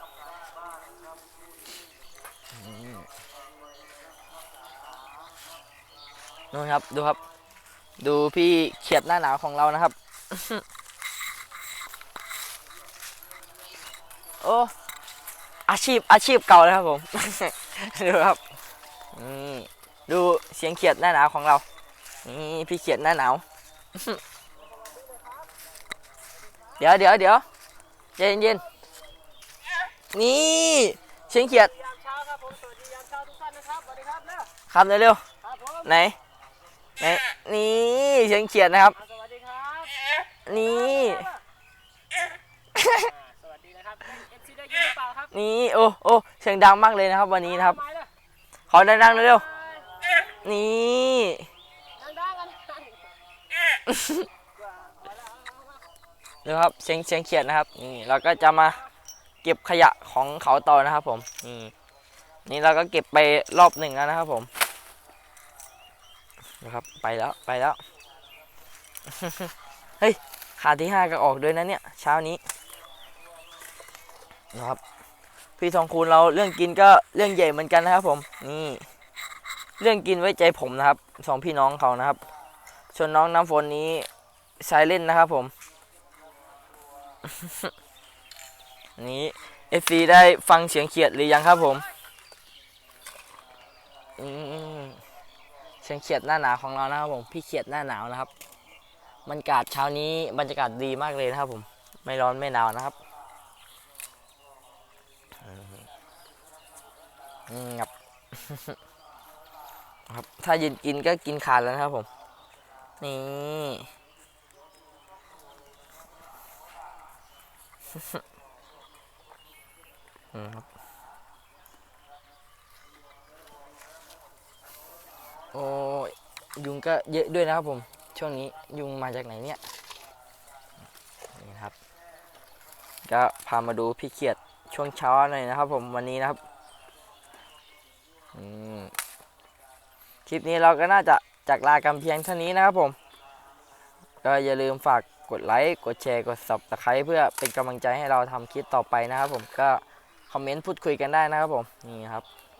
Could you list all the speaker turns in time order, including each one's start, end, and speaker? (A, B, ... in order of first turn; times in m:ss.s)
0:02.5-0:03.1 A
0:06.5-0:07.2 A
0:08.0-0:10.6 A
0:14.4-0:14.7 A
0:15.7-0:18.4 A
0:19.1-0:21.6 A
0:22.2-0:23.4 A
0:23.9-0:24.2 A
0:25.0-0:25.3 B
0:26.8-0:27.4 A
0:28.2-0:28.6 A
0:30.1-0:31.7 A
0:32.0-0:34.5 B
0:34.7-0:35.2 A
0:35.8-0:36.2 A
0:37.0-0:39.0 A
0:39.2-0:39.9 B
0:40.5-0:41.3 A
0:42.7-0:43.1 A
0:43.4-0:45.1 B
0:45.3-0:47.8 A
0:48.7-0:49.4 A
0:50.4-0:51.5 A
0:52.0-0:53.0 B
0:53.9-0:54.2 A
0:56.4-0:58.8 A
0:59.4-1:01.7 A
1:02.4-1:04.5 A
1:06.6-1:07.8 A
1:09.1-1:12.4 A
1:14.5-1:14.8 A
1:15.6-1:18.8 A
1:19.8-1:22.2 A
1:22.9-1:24.1 A
1:24.6-1:25.5 A
1:27.2-1:27.7 A
1:29.0-1:31.8 A
1:34.2-1:35.0 A
1:35.8-1:38.3 A
1:39.2-1:43.0 A
1:45.4-1:45.8 A
1:47.5-1:48.8 A
1:50.1-1:52.1 A
1:53.0-1:53.9 A
2:00.3-2:00.6 A
2:05.5-2:09.6 A
2:11.3-2:11.7 A
2:13.0-2:16.4 A
2:18.3-2:18.9 A
2:20.2-2:23.0 A
2:24.2-2:32.2 A